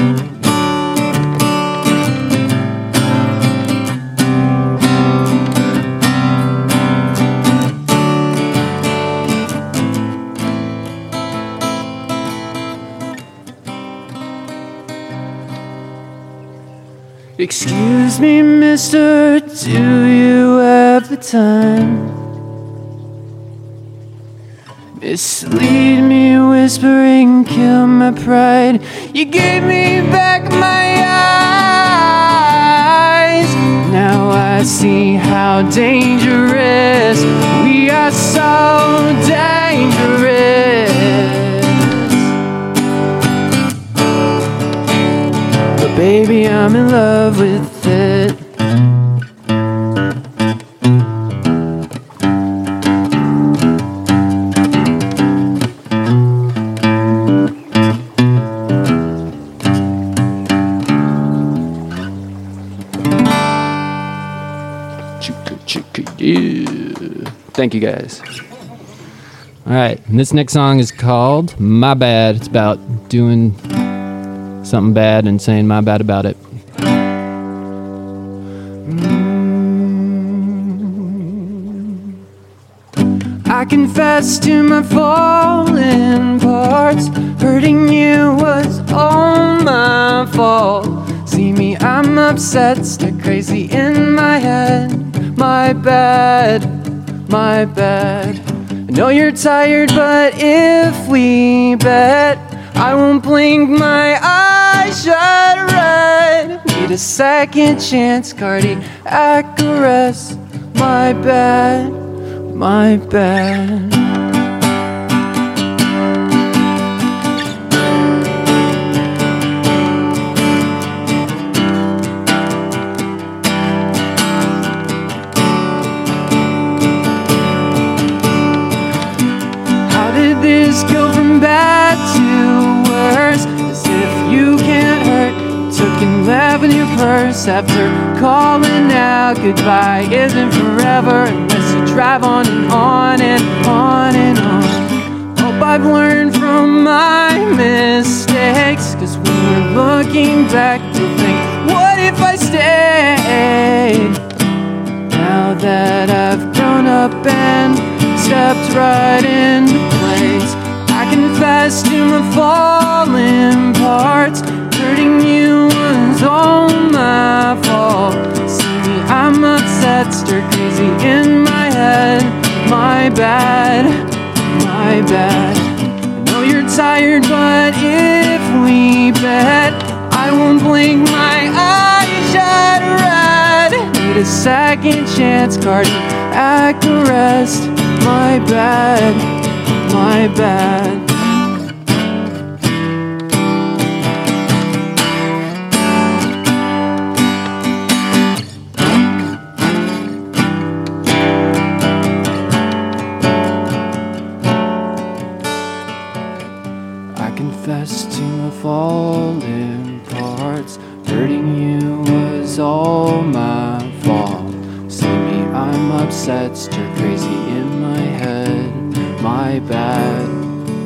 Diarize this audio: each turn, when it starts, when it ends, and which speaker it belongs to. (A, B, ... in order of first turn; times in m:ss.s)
0:17.4-0:22.2 A
0:25.0-0:42.3 A
0:45.7-0:48.4 A
1:05.2-1:08.2 A
1:09.6-1:13.6 A
1:14.6-1:16.4 A
1:18.8-1:22.1 A
1:23.5-1:54.3 A
2:09.8-2:34.2 A
2:35.1-3:11.2 A
3:27.1-3:40.4 A